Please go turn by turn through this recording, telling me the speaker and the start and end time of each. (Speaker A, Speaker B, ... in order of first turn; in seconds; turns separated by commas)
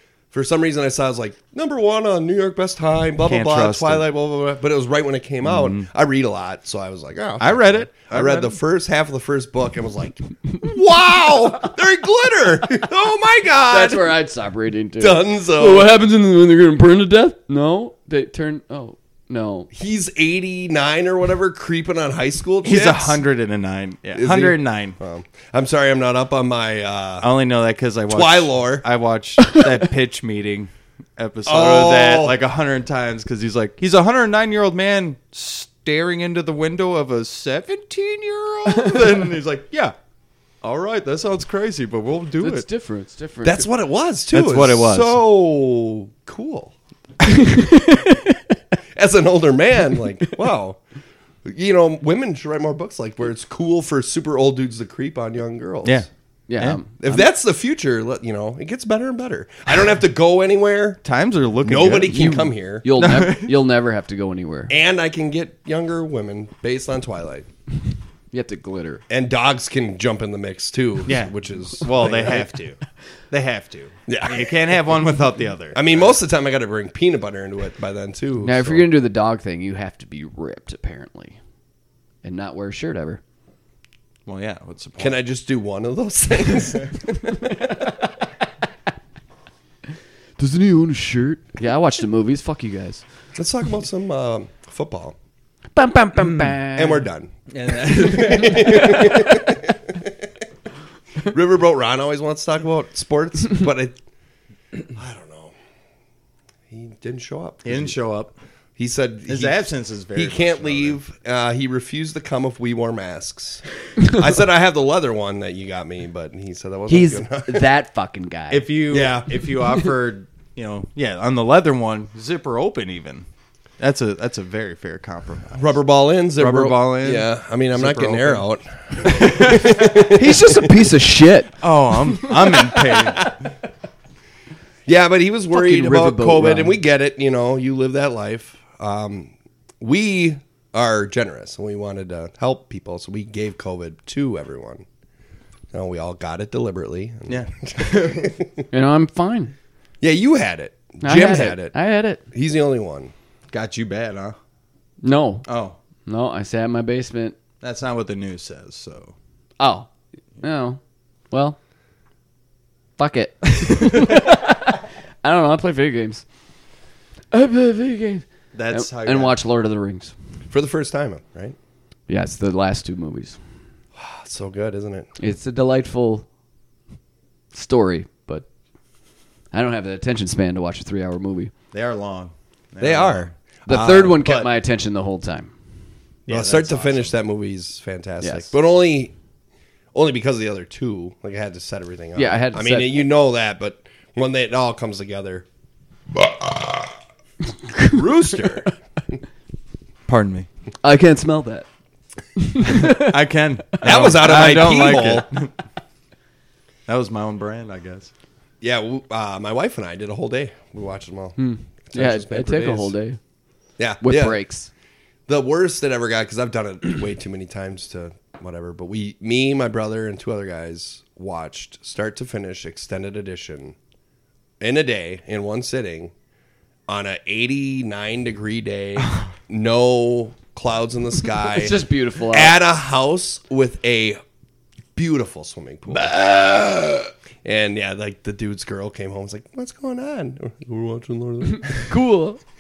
Speaker A: 0.3-14.2, Speaker B: 3.2-4.1, Speaker B: 5.5-5.9, Speaker B: 7.4-8.6, Speaker C: 13.7-19.7, Speaker A: 15.0-15.9, Speaker A: 19.7-23.2, Speaker B: 22.6-25.0, Speaker A: 24.1-27.3, Speaker B: 27.2-40.0, Speaker A: 28.1-28.8, Speaker A: 31.5-32.4, Speaker B: 40.6-42.7, Speaker C: 42.4-43.7, Speaker A: 43.4-46.7, Speaker B: 44.3-45.2, Speaker C: 47.3-48.4, Speaker A: 48.9-50.8, Speaker A: 51.5-56.0, Speaker C: 56.5-57.2, Speaker A: 57.0-61.0, Speaker B: 61.0-63.6, Speaker A: 61.6-62.9, Speaker C: 62.8-64.7, Speaker A: 64.7-67.5, Speaker C: 68.3-69.0, Speaker A: 69.1-72.5, Speaker B: 71.1-72.8, Speaker B: 73.3-76.0, Speaker A: 74.1-74.8, Speaker A: 75.7-78.9, Speaker C: 78.4-81.4, Speaker C: 82.2-83.2, Speaker B: 84.3-85.2, Speaker A: 85.0-87.8, Speaker C: 90.4-93.0, Speaker A: 93.3-95.2, Speaker C: 95.8-97.0, Speaker A: 96.7-100.3, Speaker B: 97.5-99.3, Speaker A: 101.2-104.0, Speaker A: 104.9-105.5, Speaker A: 106.7-108.0, Speaker B: 107.7-108.3, Speaker A: 108.8-117.7, Speaker B: 109.3-111.0, Speaker C: 116.9-118.7, Speaker B: 118.5-123.3, Speaker A: 118.9-119.4, Speaker B: 123.8-125.8, Speaker A: 125.5-130.7, Speaker B: 126.4-128.4, Speaker B: 129.0-129.8, Speaker C: 129.8-131.6, Speaker B: 131.6-133.4, Speaker A: 132.4-133.4, Speaker A: 134.9-144.8, Speaker C: 135.5-136.8, Speaker A: 145.7-148.5, Speaker B: 147.3-148.4, Speaker C: 148.7-149.5, Speaker A: 150.0-151.8, Speaker C: 151.0-152.2, Speaker A: 152.3-153.1, Speaker B: 153.5-154.4, Speaker C: 155.0-155.5, Speaker B: 155.5-155.8, Speaker C: 156.1-157.4, Speaker B: 157.6-159.1, Speaker C: 159.6-159.9, Speaker C: 160.4-160.8, Speaker C: 161.3-161.6, Speaker C: 163.0-166.2, Speaker C: 167.3-170.1, Speaker B: 168.5-169.4, Speaker A: 170.5-171.6, Speaker C: 172.1-173.4, Speaker A: 174.0-175.1, Speaker C: 175.2-176.3, Speaker C: 177.5-178.5, Speaker C: 179.5-181.5, Speaker B: 181.7-184.5, Speaker A: 182.8-184.1, Speaker C: 183.7-185.5, Speaker B: 186.3-187.1, Speaker A: 186.3-189.1, Speaker C: 188.2-188.5, Speaker A: 189.9-195.4, Speaker C: 192.2-193.1, Speaker A: 196.2-196.9, Speaker A: 197.8-198.7, Speaker B: 200.1-200.5, Speaker C: 200.8-201.7, Speaker C: 202.4-203.1, Speaker B: 202.7-205.5, Speaker A: 203.8-205.3, Speaker B: 206.9-208.1, Speaker A: 208.6-212.9, Speaker C: 211.4-213.2, Speaker A: 213.8-214.4, Speaker C: 214.0-214.7, Speaker A: 215.3-223.8, Speaker A: 224.6-226.1, Speaker A: 226.9-234.2, Speaker C: 231.5-232.6, Speaker A: 234.9-241.9, Speaker C: 241.7-242.4